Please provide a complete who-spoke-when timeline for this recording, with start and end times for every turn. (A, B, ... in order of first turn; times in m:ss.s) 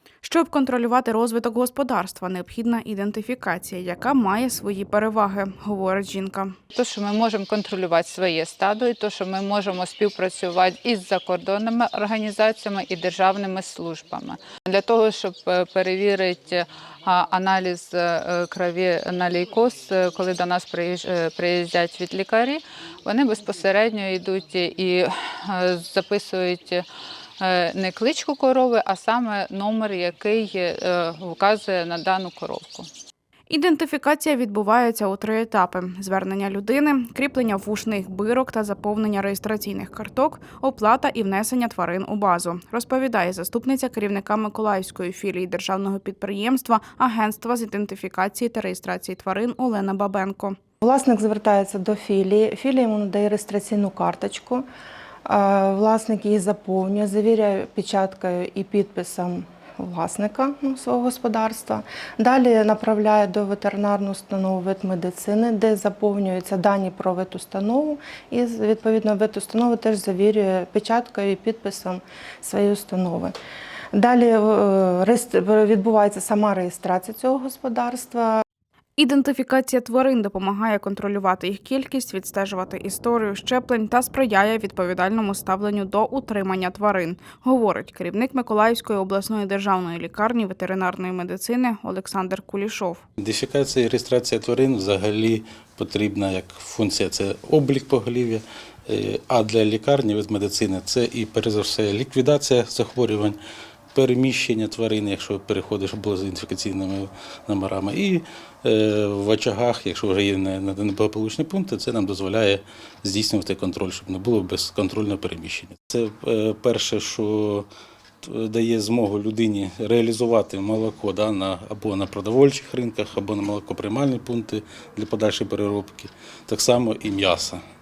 0:00.2-0:06.5 A
0:06.7-0:26.8 B
0:27.4-0:32.9 B
0:33.5-0:50.6 A
0:50.8-0:54.6 C
0:55.2-1:13.3 C
1:13.9-1:18.4 C
1:19.0-1:33.0 A
1:33.2-1:43.4 D
1:43.9-1:57.7 D
1:58.2-2:07.6 D